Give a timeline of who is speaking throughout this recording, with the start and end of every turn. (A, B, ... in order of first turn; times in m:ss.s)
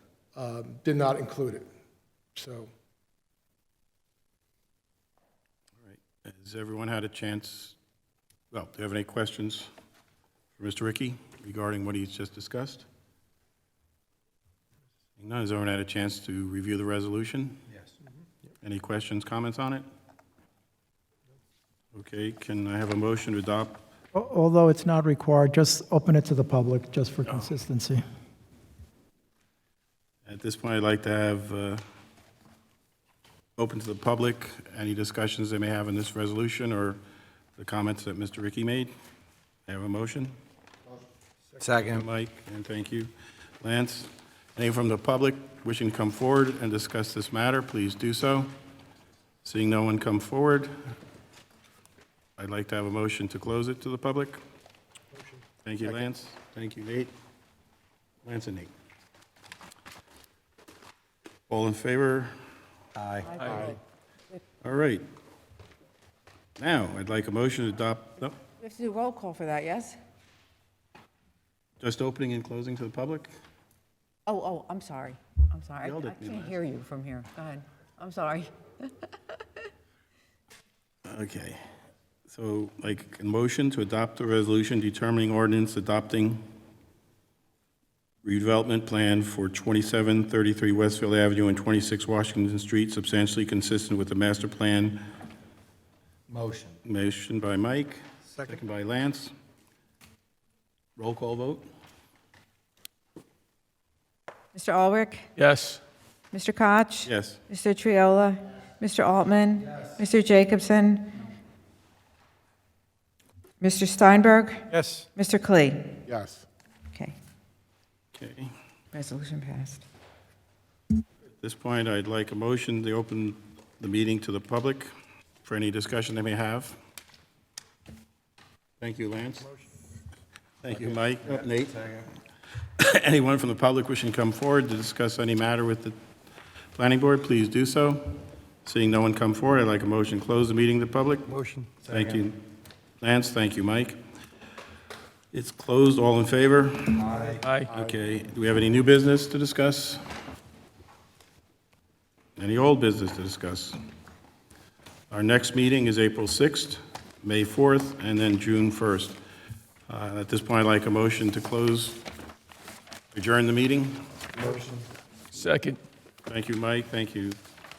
0:00.4-0:01.6 A
0:02.4-0:02.7 A
0:05.8-0:07.8 B
0:08.5-0:09.7 B
0:10.6-0:12.8 B
0:15.2-0:17.6 B
0:18.6-0:19.8 B
0:21.9-0:23.8 B
0:24.1-0:28.0 C
0:30.2-0:31.8 B
0:33.6-0:37.0 B
0:37.6-0:38.9 B
0:39.7-0:40.4 B
0:41.6-0:42.0 D
0:41.9-0:43.1 B
0:43.6-0:48.5 B
0:49.4-0:50.7 B
0:52.4-0:54.4 B
0:55.1-0:55.4 A
0:55.6-0:57.1 B
0:58.2-0:58.7 B
1:01.5-1:02.3 B
1:03.0-1:03.4 D
1:03.2-1:03.8 E
1:04.6-1:05.0 B
1:06.6-1:08.4 B
1:08.6-1:10.0 E
1:11.8-1:13.3 B
1:14.2-1:19.4 E
1:15.8-1:16.6 B
1:21.0-1:21.6 B
1:22.3-1:26.4 B
1:28.2-1:35.0 B
1:36.3-1:36.8 D
1:36.8-1:39.3 B
1:41.0-1:41.6 B
1:44.5-1:45.3 E
1:45.4-1:45.8 C
1:46.3-1:51.2 E
1:47.0-1:47.4 B
1:53.6-1:55.8 E
1:54.7-1:55.0 C
1:56.1-1:56.4 A
1:58.1-1:58.5 B
1:58.9-1:59.8 E
2:01.4-2:04.9 B
2:05.4-2:06.8 B
2:08.8-2:09.5 B
2:10.6-2:11.8 B
2:10.7-2:12.1 D
2:12.8-2:16.0 B
2:16.8-2:21.3 B
2:21.3-2:22.2 D
2:21.8-2:22.4 B
2:23.0-2:24.0 B
2:25.3-2:30.0 B
2:27.0-2:27.4 D
2:27.4-2:27.7 C
2:32.4-2:33.8 B
2:35.1-2:39.2 B
2:39.9-2:42.0 B
2:43.1-2:44.0 B
2:44.4-2:44.8 D
2:45.3-2:45.8 C
2:46.3-2:47.4 B